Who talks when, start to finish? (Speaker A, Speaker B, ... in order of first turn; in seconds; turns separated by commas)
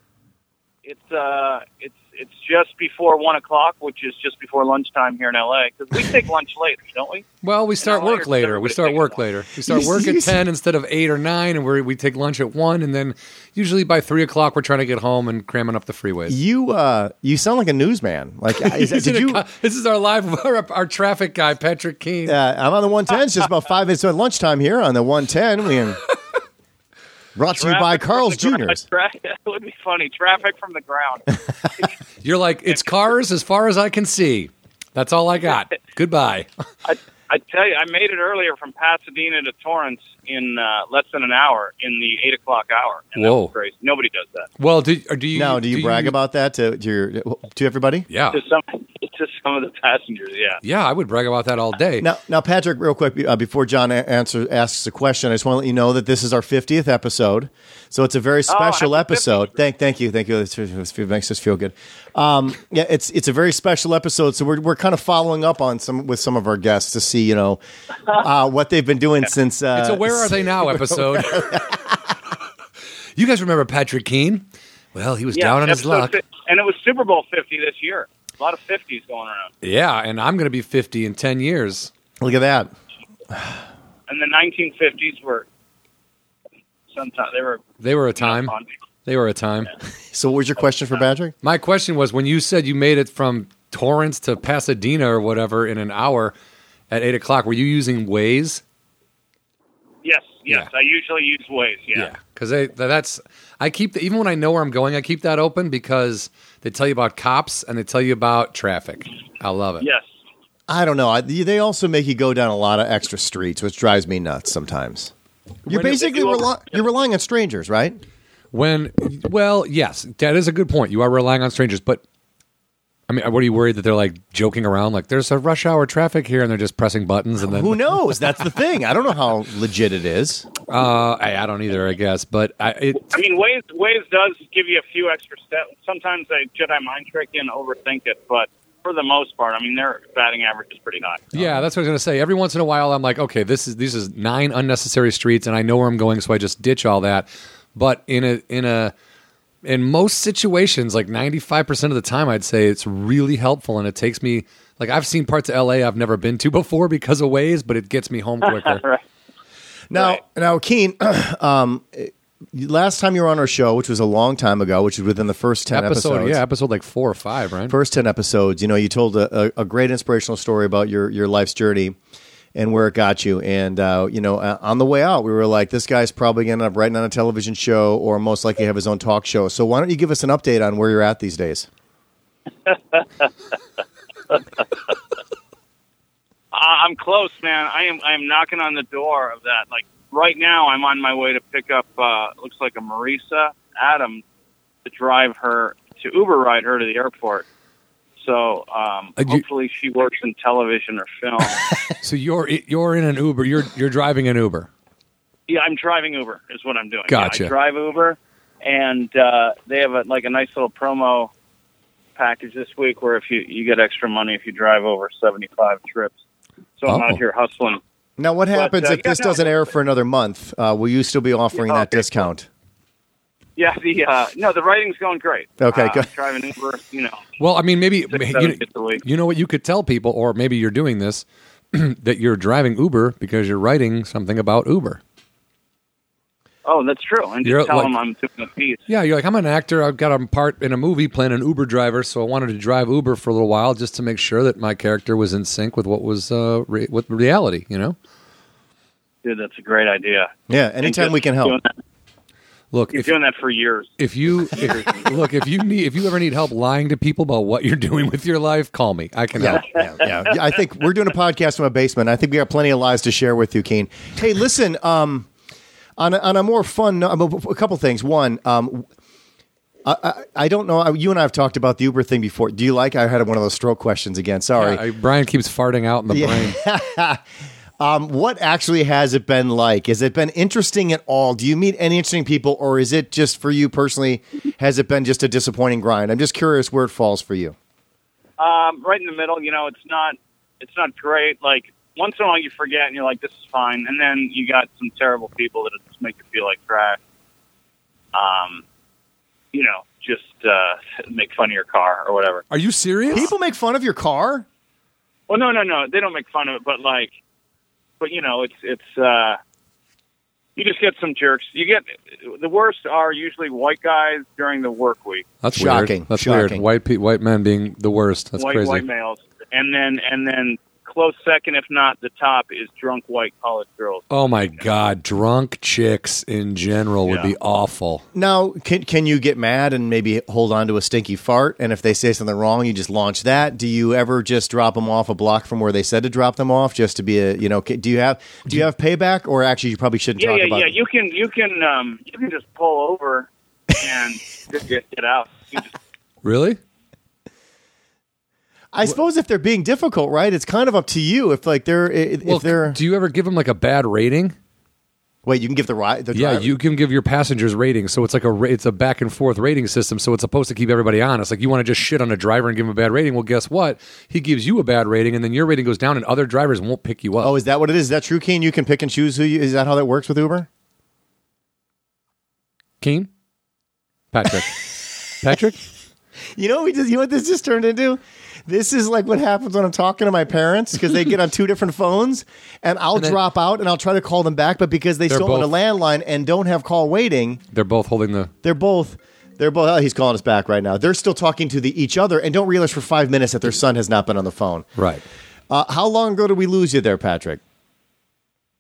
Speaker A: 0.8-7.3, Speaker B: 7.4-16.4, Speaker A: 7.8-9.2, Speaker C: 9.7-10.4, Speaker C: 16.3-19.4, Speaker B: 18.6-22.4, Speaker C: 22.3-26.0, Speaker C: 27.4-28.8, Speaker A: 27.5-31.9, Speaker B: 32.2-36.5, Speaker A: 36.9-44.5, Speaker B: 43.2-43.5, Speaker B: 44.6-46.1, Speaker C: 45.3-48.1, Speaker B: 48.1-48.4, Speaker A: 48.3-50.6, Speaker B: 50.6-52.1, Speaker C: 52.0-71.8, Speaker A: 58.5-59.5, Speaker B: 69.7-71.7, Speaker B: 73.2-76.2, Speaker A: 75.3-79.5, Speaker B: 79.6-81.9, Speaker C: 82.2-82.7, Speaker A: 84.1-85.5, Speaker A: 86.9-87.7, Speaker B: 87.8-88.5, Speaker A: 88.2-88.7, Speaker B: 89.1-89.7, Speaker C: 90.1-91.3, Speaker B: 91.4-96.3, Speaker B: 96.9-98.6, Speaker A: 100.0-102.1, Speaker B: 102.0-109.9, Speaker C: 110.7-115.1, Speaker C: 115.7-118.0, Speaker A: 115.7-116.5, Speaker B: 118.5-122.0, Speaker B: 123.1-128.2, Speaker C: 127.4-130.5, Speaker B: 130.7-133.1, Speaker A: 133.1-141.4, Speaker B: 141.3-148.9, Speaker B: 149.6-158.8, Speaker A: 158.4-159.0, Speaker C: 159.9-166.4, Speaker B: 165.7-167.8, Speaker C: 167.7-172.0, Speaker C: 172.6-181.7, Speaker A: 182.7-183.3, Speaker A: 186.5-194.2, Speaker A: 194.8-197.4, Speaker A: 198.2-201.7, Speaker B: 199.2-199.4, Speaker B: 202.0-204.7, Speaker A: 205.5-211.3, Speaker B: 207.1-207.5, Speaker A: 212.2-216.1, Speaker A: 216.8-217.8, Speaker B: 216.9-217.2, Speaker C: 218.2-222.5, Speaker A: 218.5-219.6, Speaker A: 221.6-222.2, Speaker A: 223.6-227.2, Speaker C: 225.6-226.1, Speaker B: 227.4-235.0, Speaker A: 228.1-229.0, Speaker A: 236.7-238.8, Speaker B: 237.4-237.9, Speaker B: 238.9-248.0, Speaker A: 249.2-251.7, Speaker C: 250.5-251.6, Speaker B: 252.7-253.1, Speaker A: 252.9-254.0, Speaker B: 254.0-259.7, Speaker A: 254.5-255.1, Speaker C: 259.4-265.3, Speaker C: 266.0-268.9, Speaker C: 269.9-274.8, Speaker B: 274.6-276.6, Speaker C: 276.1-277.2, Speaker C: 277.8-287.6, Speaker A: 288.4-297.0, Speaker A: 298.1-298.6, Speaker A: 299.5-302.4, Speaker B: 302.5-303.3, Speaker C: 303.1-304.5, Speaker A: 305.3-307.1, Speaker A: 308.0-309.4, Speaker A: 310.6-315.3, Speaker B: 315.4-318.9, Speaker C: 315.6-316.6, Speaker A: 318.4-324.4, Speaker B: 324.1-328.0, Speaker C: 328.1-340.7, Speaker A: 340.2-345.7, Speaker B: 346.2-346.6, Speaker C: 348.7-352.8, Speaker B: 352.2-354.4, Speaker C: 355.2-356.5, Speaker B: 356.1-367.3, Speaker C: 367.2-370.5, Speaker B: 372.8-373.1, Speaker B: 374.1-375.6, Speaker C: 376.4-387.4, Speaker B: 385.1-385.5, Speaker B: 387.5-388.3, Speaker C: 388.4-394.7, Speaker B: 394.8-395.0, Speaker C: 395.5-397.4